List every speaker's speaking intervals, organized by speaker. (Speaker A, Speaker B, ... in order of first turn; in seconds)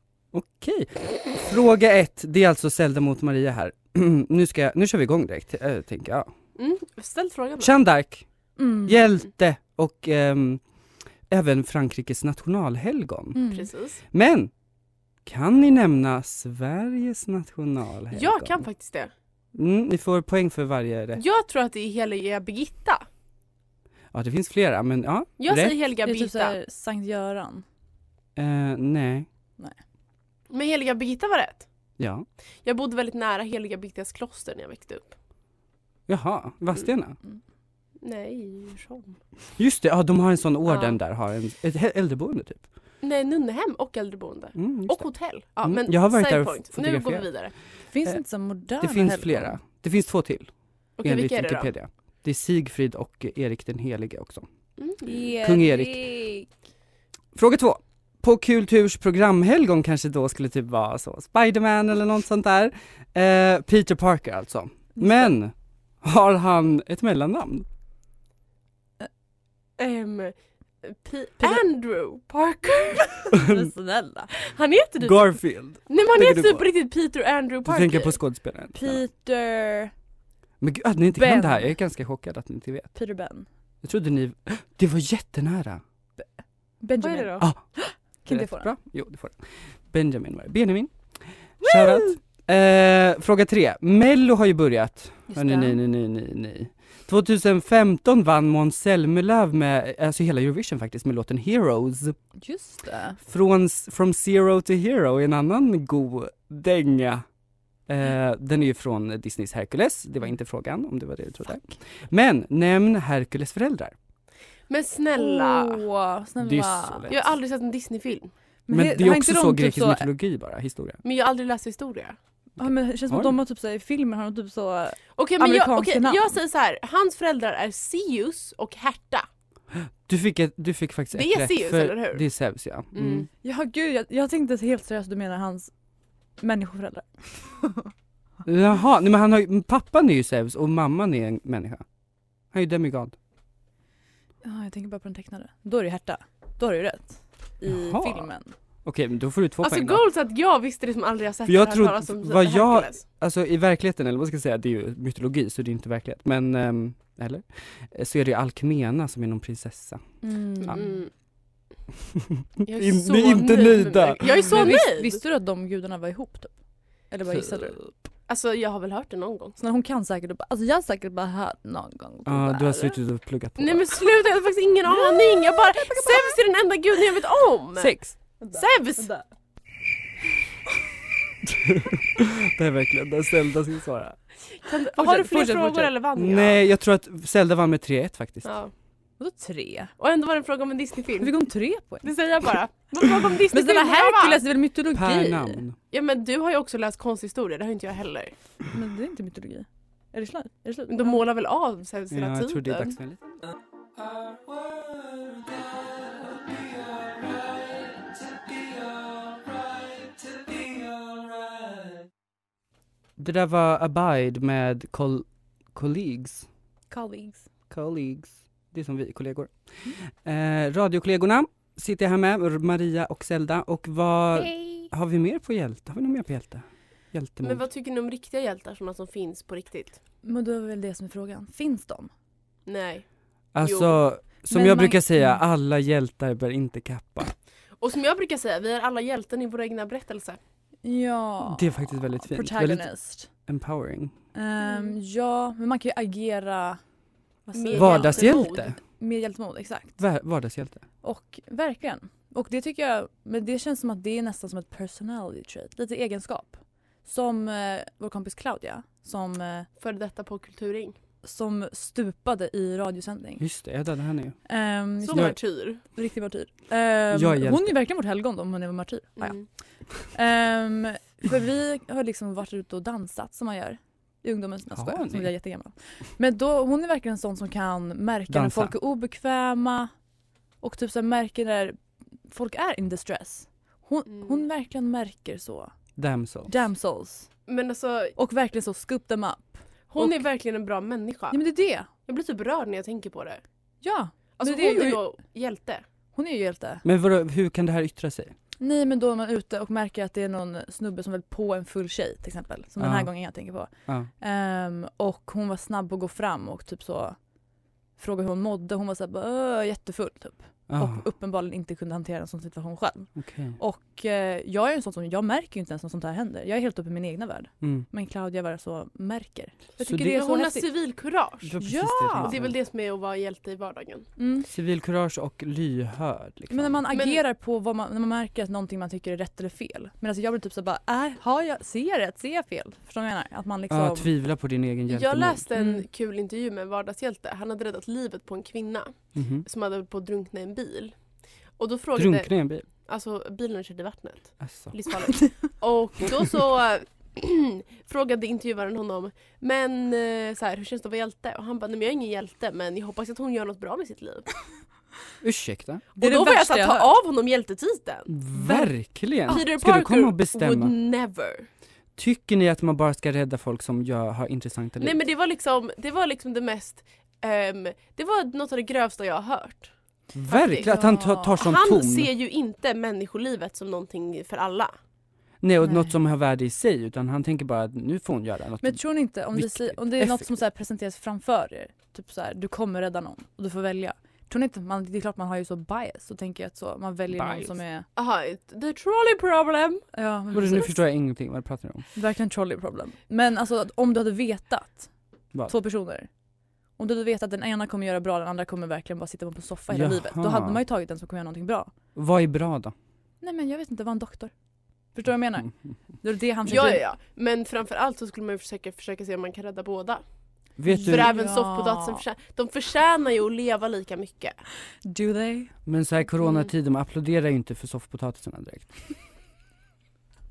Speaker A: 0.3-6.3, 7.6-8.2, 8.8-10.6, 11.3-13.5, 14.1-14.5, 15.2-18.7, 19.5-21.2, 24.1-25.7, 28.4-29.3, 32.0-32.3, 36.1-37.2, 39.6-42.6, 44.6-45.1, 45.6-47.3, 48.8-50.5, 51.0-54.5, 55.4-56.0, 57.4-67.7, 73.3-73.7, 75.0-76.7, 77.7-79.0, 80.6-83.0, 83.8-85.8, 88.3-91.0, 91.6-102.2, 103.2-107.2, 107.9-114.0, 116.4-117.2, 118.7-121.0, 129.7-133.3, 138.4-141.8, 142.5-143.2, 147.7-148.3, 148.8-150.0, 151.5-160.1, 162.1-164.8, 167.3-167.9, 172.3-173.9, 181.4-184.2, 186.2-188.5, 194.9-195.8, 202.1-203.4, 204.5-205.6, 206.5-207.4, 208.8-211.9, 213.2-216.5, 217.7-219.5, 220.0-227.6, 233.5-237.3, 241.4-244.1, 247.7-248.8, 250.0-250.8, 263.4-264.4, 265.1-265.4, 267.1-267.8, 274.7-275.3, 278.3-278.8, 286.0-286.5, 296.8-298.4, 302.8-303.1, 310.7-311.1, 313.2-313.6, 317.6-317.9, 319.8-320.1, 321.4-322.6, 324.5-326.8, 333.7-335.5, 339.1-339.4, 342.0-342.7, 344.4-344.7, 355.2-355.9, 358.1-360.7, 362.0-365.0, 370.1-372.1, 375.4-380.3, 387.1-387.6, 390.3-391.9, 399.7-400.6, 401.9-402.7, 410.6-411.1, 415.7-418.8
Speaker B: 6.6-7.8, 13.5-14.0, 18.1-19.1, 21.2-23.0, 25.4-26.6, 30.5-31.7, 32.6-35.1, 38.0-39.2, 43.0-47.5, 51.0-51.7, 54.8-55.3, 69.8-73.3, 74.3-78.2, 87.0-87.4, 114.7-115.8, 117.1-118.3, 121.0-122.2, 125.2-129.3, 131.1-132.2, 132.9-133.3, 149.6-153.1, 160.6-161.1, 162.7-165.2, 168.3-169.6, 173.6-179.1, 184.6-186.6, 188.4-188.7, 190.0-191.3, 192.0-194.4, 195.9-198.3, 200.9-203.0, 227.4-230.0, 232.7-233.1, 233.6-234.0, 237.8-240.4, 244.6-245.0, 247.6-248.7, 259.8-261.0, 265.0-265.8, 269.2-269.5, 287.5-288.2, 289.9-291.4, 292.1-293.4, 294.4-295.8, 320.1-321.6, 322.2-324.1, 326.9-327.2, 334.9-340.9, 341.6-354.3, 356.0-358.1, 359.3-361.5, 364.8-369.7, 370.3-370.8, 371.4-374.7, 388.0-389.9, 406.5-410.0, 410.8-414.4, 416.2-416.5
Speaker C: 8.6-9.0, 13.3-13.7, 26.1-27.6, 47.9-49.6, 55.0-56.5, 65.0-65.3, 73.2-74.3, 78.8-79.9, 81.2-81.8, 83.0-83.5, 86.8-88.7, 91.7-92.0, 95.3-95.8, 102.4-103.2, 115.2-117.2, 118.7-120.1, 122.6-126.4, 133.4-135.7, 136.4-137.9, 144.4-148.6, 160.2-161.0, 164.2-166.6, 167.1-167.8, 169.6-173.0, 174.9-176.4, 177.8-179.2, 184.9-185.9, 189.2-189.9, 191.2-192.1, 193.5-195.6, 198.7-201.2, 216.9-217.5, 224.4-224.9, 230.2-232.1, 234.5-235.4, 240.8-243.3, 244.3-246.8, 247.5-250.0, 251.0-259.7, 261.2-263.4, 264.5-269.4, 270.1-279.9, 280.6-285.7, 286.5-287.3, 288.2-290.2, 291.3-291.9, 293.8-295.0, 296.1-296.8, 298.6-307.2, 308.0-320.7, 321.6-322.4, 324.2-324.5, 326.5-334.1, 335.6-335.9, 356.0-356.9, 358.3-358.7, 370.5-371.4, 375.6-375.9, 378.6-387.9, 389.9-390.7, 391.9-394.9, 395.4-396.1, 396.8-401.7, 403.2-404.3, 404.9-406.9, 410.7-412.0, 414.9-415.6